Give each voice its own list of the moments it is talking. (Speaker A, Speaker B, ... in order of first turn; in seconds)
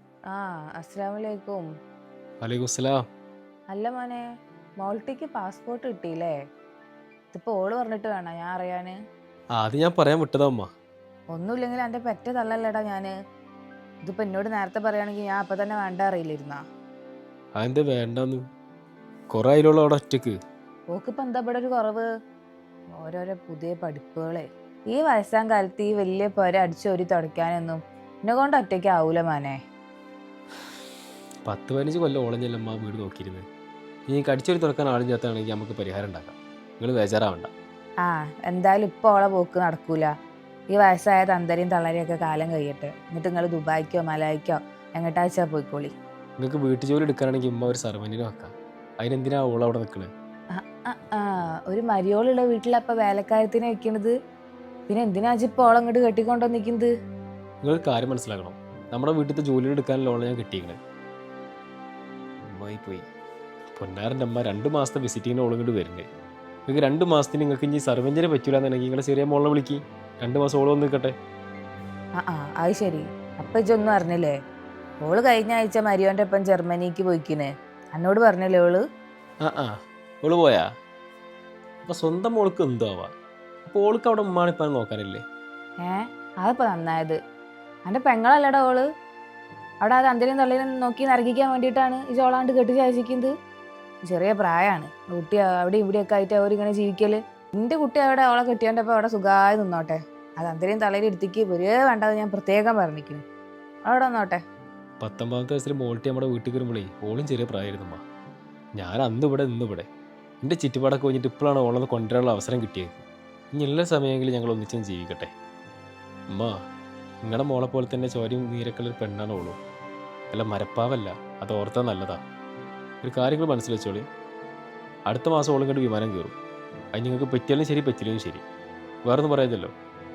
Speaker A: 0.3-1.7, 3.7-4.2, 4.8-6.3, 7.3-9.0, 11.3-13.1, 14.1-16.6, 20.9-22.1, 23.0-29.6, 38.0-40.1, 40.7-45.9, 50.6-54.1, 54.9-56.9, 72.2-74.3, 75.0-78.8, 85.8-87.2, 87.9-88.8, 89.8-93.3, 94.1-103.2, 103.9-104.4
Speaker B: 2.4-3.0, 9.6-10.7, 17.6-18.4, 19.3-20.4, 31.5-33.5, 34.1-37.5, 46.4-50.1, 57.6-60.8, 62.5-63.0, 63.8-66.1, 66.7-71.2, 79.4-80.7, 81.8-83.1, 83.7-85.2, 105.0-108.0, 108.8-109.9, 110.4-115.3, 117.2-119.6, 120.3-122.2, 123.0-124.0, 125.1-126.4, 126.9-128.4, 129.0-129.7